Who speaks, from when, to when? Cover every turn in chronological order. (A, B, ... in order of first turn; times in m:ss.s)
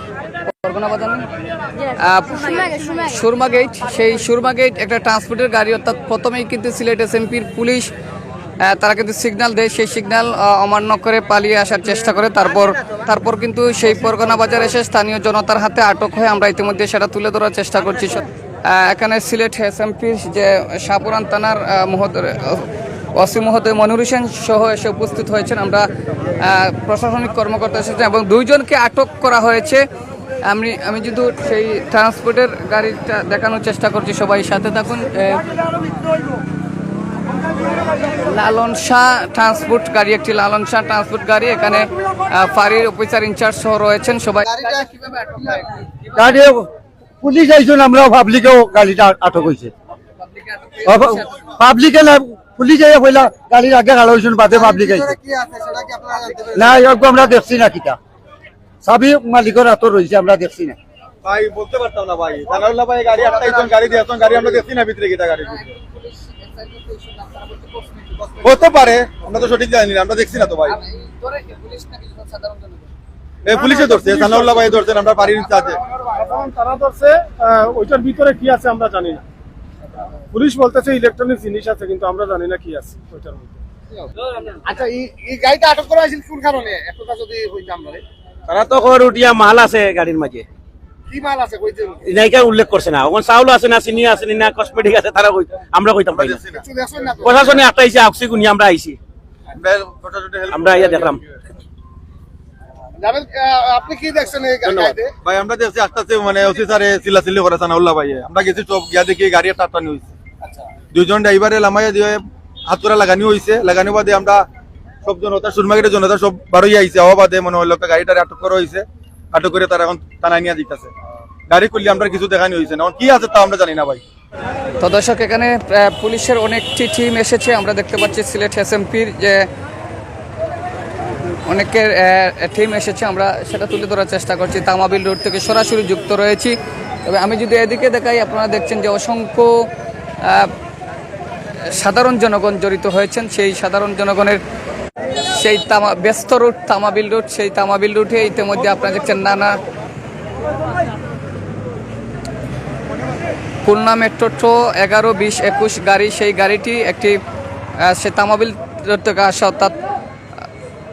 0:00.5-0:01.2 A
0:02.0-0:07.9 A
0:08.6-0:29.8 A
0:30.4-0:35.4 A
0:38.3-0:46.2 A
0:44.5-0:44.9 B
0:46.1-0:46.7 C
0:47.2-0:49.7 C
0:50.7-0:51.1 A
0:50.8-0:55.2 C
0:54.5-0:56.7 B
0:56.5-0:58.0 C
0:58.8-1:00.8 C
1:01.2-1:05.7 D
1:05.8-1:08.4 A
1:08.4-1:10.8 D
1:11.0-1:12.8 A
1:13.4-1:15.8 D
1:13.5-1:14.6 E
1:16.1-1:19.2 E
1:20.3-1:23.6 E
1:24.2-1:28.0 B
1:28.5-1:30.5 F
1:31.1-1:32.0 B
1:32.0-1:36.4 F
1:36.1-1:36.6 D
1:36.5-1:37.4 B
1:37.2-1:39.0 F
1:39.6-1:41.2 D
1:40.5-1:41.2 F
1:43.0-1:45.1 B
1:44.7-1:45.0 F
1:45.2-1:50.1 D
1:50.9-1:54.4 D
1:55.0-2:00.9 D
2:01.5-2:04.0 D
2:04.8-2:09.5 A
2:11.5-2:19.7 A
2:20.2-2:20.5 A
2:21.7-2:24.4 A
2:25.3-2:29.6 A
2:33.6-2:37.2 A
2:37.8-2:39.8 A